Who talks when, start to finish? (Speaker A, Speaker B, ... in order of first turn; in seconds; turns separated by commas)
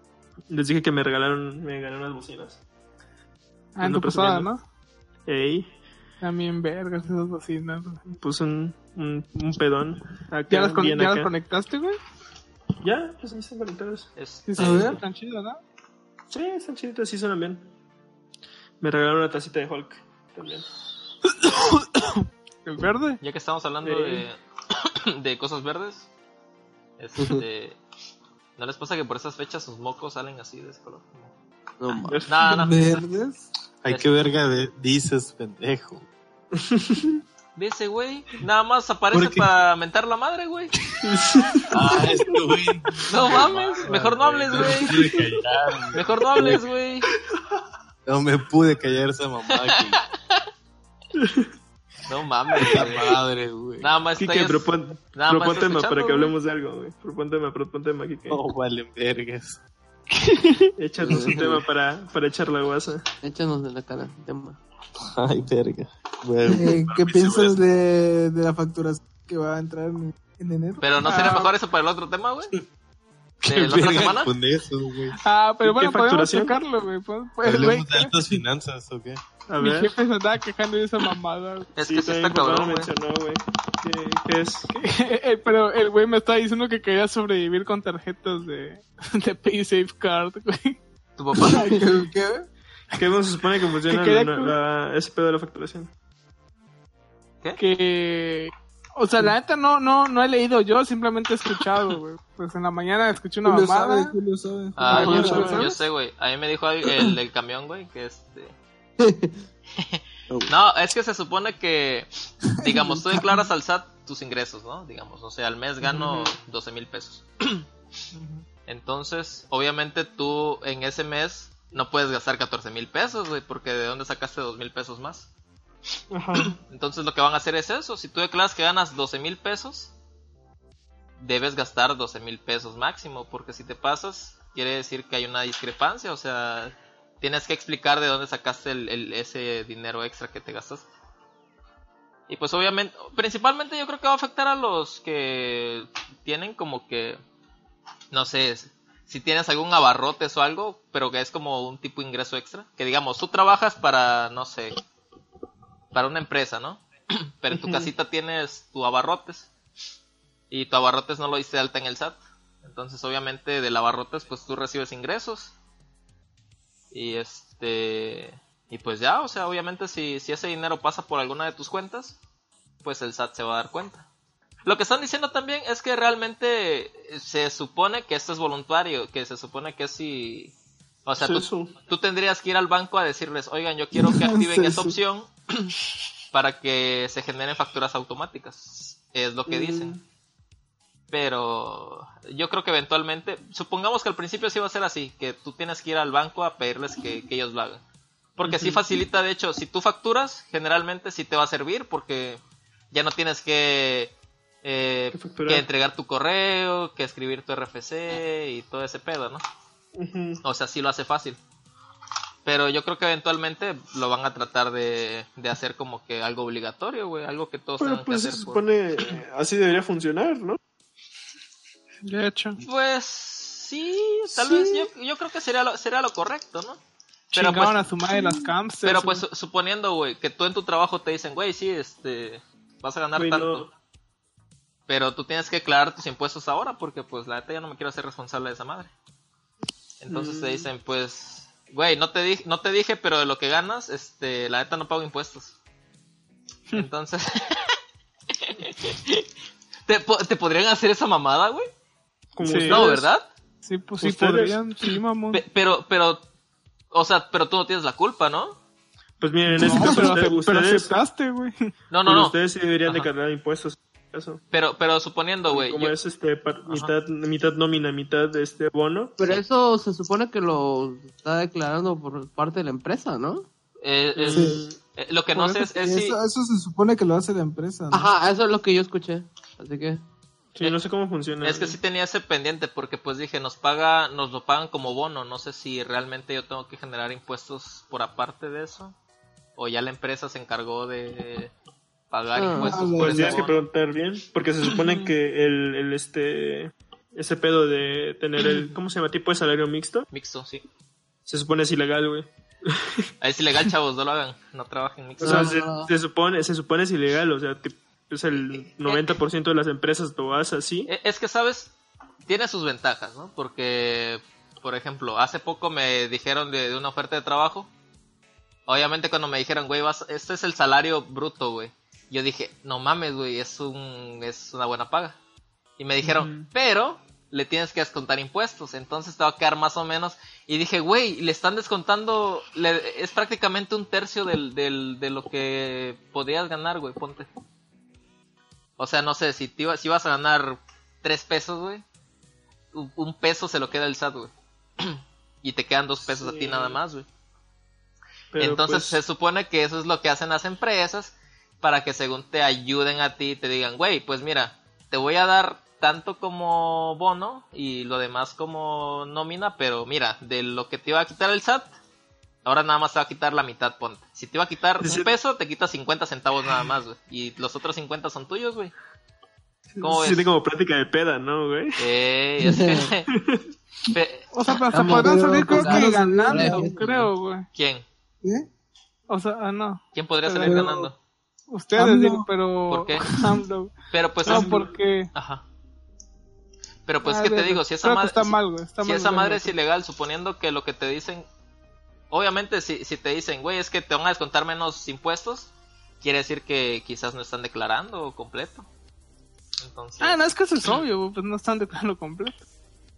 Speaker A: 0.5-2.6, Speaker B: 3.8-4.6, Speaker A: 3.8-4.5, Speaker A: 5.3-5.7, Speaker B: 6.2-8.0, Speaker A: 8.1-11.3, Speaker B: 10.5-12.0, Speaker A: 12.8-14.1, Speaker C: 14.2-15.0, Speaker B: 14.4-15.6, Speaker D: 14.6-15.0, Speaker A: 16.3-17.7, Speaker A: 18.8-20.7, Speaker B: 21.4-23.2, Speaker C: 23.2-24.4, Speaker A: 23.8-24.3, Speaker C: 25.1-26.1, Speaker C: 27.0-27.8, Speaker C: 28.6-31.3, Speaker E: 31.8-32.2, Speaker C: 32.0-33.0, Speaker A: 32.1-32.6, Speaker D: 32.5-33.5, Speaker F: 33.8-36.0, Speaker C: 33.9-34.3, Speaker A: 36.5-37.1, Speaker C: 37.5-40.7, Speaker F: 39.1-39.5, Speaker A: 41.0-41.7, Speaker F: 41.7-46.6, Speaker C: 43.1-45.1, Speaker C: 45.9-47.1, Speaker F: 48.0-50.0, Speaker C: 49.5-50.0, Speaker A: 51.1-51.5, Speaker C: 52.1-53.2, Speaker F: 52.5-54.0, Speaker C: 53.8-56.4, Speaker A: 54.1-58.4, Speaker F: 58.3-59.6, Speaker B: 60.2-60.6, Speaker A: 60.8-63.0, Speaker E: 61.0-61.6, Speaker E: 63.2-64.6, Speaker F: 65.1-67.3, Speaker D: 66.4-70.9, Speaker C: 70.8-72.5, Speaker B: 71.0-71.5, Speaker C: 73.4-74.3, Speaker F: 73.4-75.2, Speaker B: 75.2-78.1, Speaker A: 75.6-76.6, Speaker F: 77.4-79.2, Speaker A: 79.5-79.9, Speaker B: 79.6-81.7, Speaker C: 81.7-82.9, Speaker A: 81.8-84.7, Speaker B: 84.7-90.8, Speaker C: 91.2-91.8, Speaker D: 91.4-92.5, Speaker A: 92.9-95.9, Speaker B: 93.9-94.5, Speaker B: 97.6-104.2, Speaker D: 103.4-105.6, Speaker C: 104.8-108.5, Speaker A: 104.9-105.7, Speaker B: 104.9-105.8, Speaker E: 109.0-109.4, Speaker C: 109.8-117.6, Speaker D: 112.6-113.4, Speaker A: 115.9-116.3, Speaker C: 118.2-125.3, Speaker A: 126.1-126.6, Speaker C: 126.7-129.9, Speaker C: 131.2-140.9, Speaker C: 142.3-147.2, Speaker C: 148.1-154.7, Speaker C: 155.9-159.5, Speaker A: 157.5-157.9, Speaker C: 160.5-165.5, Speaker C: 166.9-172.2, Speaker C: 172.8-174.1, Speaker C: 174.6-180.5, Speaker C: 181.1-185.7, Speaker A: 181.2-181.7, Speaker D: 183.9-184.9, Speaker C: 186.3-189.9, Speaker A: 189.5-190.0, Speaker C: 191.1-197.8, Speaker C: 198.4-202.4, Speaker A: 198.4-198.8, Speaker C: 202.9-209.4, Speaker A: 205.1-205.7, Speaker A: 209.9-210.4, Speaker C: 210.4-211.4, Speaker C: 212.4-218.6, Speaker A: 217.8-220.6, Speaker B: 222.0-222.6, Speaker C: 222.6-226.8, Speaker B: 227.3-229.2, Speaker C: 227.3-233.7, Speaker A: 233.1-233.7, Speaker C: 234.9-238.9, Speaker C: 240.0-245.5, Speaker A: 240.1-240.7, Speaker C: 246.7-247.5, Speaker C: 248.4-249.2, Speaker C: 249.9-251.7, Speaker A: 252.4-253.1, Speaker B: 252.4-252.8, Speaker C: 252.6-253.3, Speaker B: 253.6-255.4, Speaker A: 254.0-254.6, Speaker C: 255.3-256.2, Speaker C: 256.9-258.6, Speaker A: 259.2-260.9, Speaker B: 259.5-261.7, Speaker C: 261.9-263.1, Speaker A: 262.0-264.4, Speaker C: 264.5-266.0, Speaker A: 265.5-269.2, Speaker E: 269.2-273.4, Speaker C: 273.8-276.2, Speaker A: 274.1-274.8, Speaker D: 274.3-274.6, Speaker D: 275.3-278.1, Speaker E: 277.9-280.0, Speaker A: 280.6-281.8, Speaker C: 281.4-288.9, Speaker C: 289.6-291.5, Speaker C: 292.1-293.6, Speaker E: 292.3-292.8, Speaker D: 292.6-293.4, Speaker A: 292.9-300.1, Speaker C: 300.1-300.6, Speaker A: 301.3-302.9, Speaker C: 303.2-305.7, Speaker E: 305.2-305.9, Speaker A: 305.2-310.9, Speaker C: 308.8-309.2, Speaker C: 310.9-311.7, Speaker C: 312.2-317.7, Speaker C: 318.7-325.2, Speaker C: 325.8-337.3, Speaker A: 326.0-326.5, Speaker C: 338.8-341.8, Speaker C: 342.7-347.1, Speaker A: 346.0-346.8, Speaker A: 348.3-349.0, Speaker C: 348.4-361.7, Speaker C: 362.4-368.7, Speaker A: 364.8-365.1, Speaker C: 369.8-370.3, Speaker A: 369.8-371.9, Speaker C: 371.8-373.1, Speaker E: 372.4-372.9, Speaker A: 373.1-373.4, Speaker C: 373.9-374.6, Speaker B: 374.3-377.5, Speaker E: 374.7-376.9, Speaker D: 374.8-376.7, Speaker C: 376.7-377.9, Speaker B: 379.1-380.7, Speaker C: 379.9-380.9, Speaker D: 380.4-380.9, Speaker B: 381.5-385.1, Speaker D: 381.8-382.3, Speaker C: 382.7-383.1, Speaker C: 383.9-385.4, Speaker A: 384.2-384.7, Speaker C: 386.9-391.2, Speaker B: 387.0-389.5, Speaker C: 392.1-395.5, Speaker C: 396.0-398.7, Speaker C: 399.6-400.8, Speaker B: 400.0-402.4